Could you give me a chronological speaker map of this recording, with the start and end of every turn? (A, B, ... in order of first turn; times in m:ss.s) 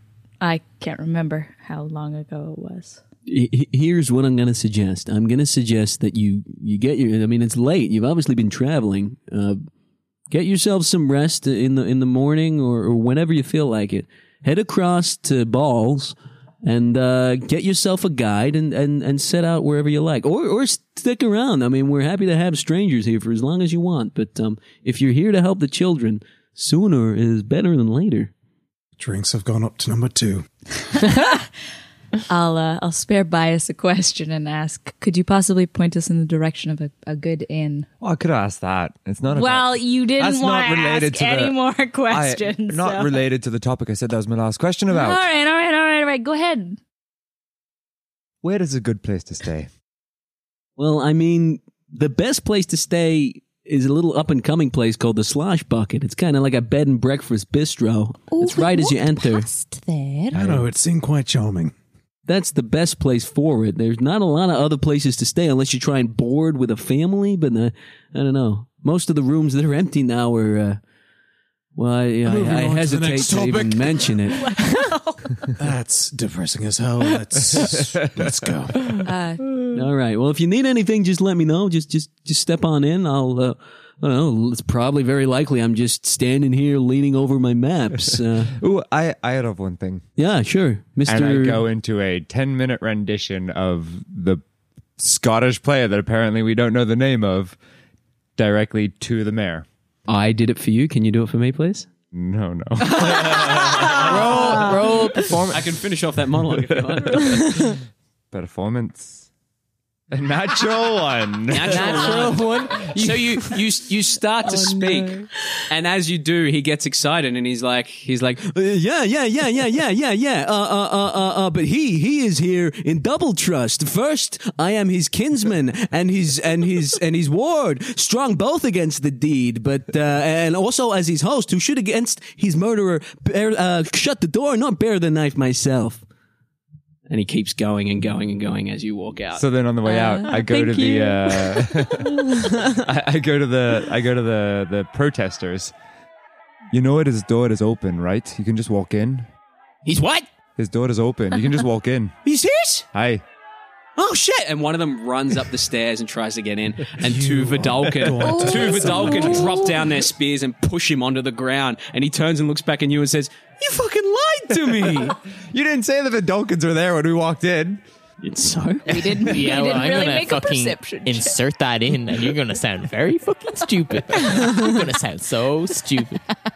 0:00.4-0:03.0 A
0:03.3-0:09.6 B
0:10.3-0:28.3 B
0:29.0-0:30.5 C
0:30.9-0:31.5 A
0:32.3-0:37.9 A
0:38.0-0:41.6 D
0:39.3-0:43.2 A
0:42.1-0:45.3 D
0:44.9-0:46.8 A
0:48.4-0:49.7 D
0:50.8-0:59.5 B
0:58.3-1:00.4 E
1:00.3-1:01.7 C
1:00.3-1:00.6 D
1:02.3-1:10.8 B
1:11.8-1:14.5 B
1:12.2-1:14.2 C
1:14.4-1:15.3 A
1:15.6-1:19.0 C
1:17.5-1:18.2 D
1:19.0-1:19.4 A
1:19.7-1:28.6 B
1:28.5-1:30.1 D
1:30.2-1:31.6 B
1:31.0-1:34.4 D
1:35.0-1:37.6 D
1:38.4-1:39.7 D
1:40.1-1:41.9 B
1:42.1-1:45.6 D
1:43.6-1:44.6 B
1:43.9-1:45.6 F
1:45.5-1:47.8 B
1:46.5-1:47.4 D
1:48.3-1:49.3 D
1:50.1-1:52.3 D
1:51.5-2:16.0 B
1:51.6-1:53.2 F
2:17.1-2:19.4 B
2:19.4-2:25.7 D
2:19.8-2:21.3 A
2:26.7-2:29.3 D
2:29.8-2:30.3 B
2:30.6-2:32.2 D
2:32.2-2:32.9 B
2:32.9-2:33.2 D
2:34.0-2:45.2 B
2:37.0-2:39.7 C
2:38.2-2:39.9 E
2:44.5-2:47.8 D
2:48.2-2:48.9 B
2:48.9-2:51.4 A
2:49.2-2:56.2 F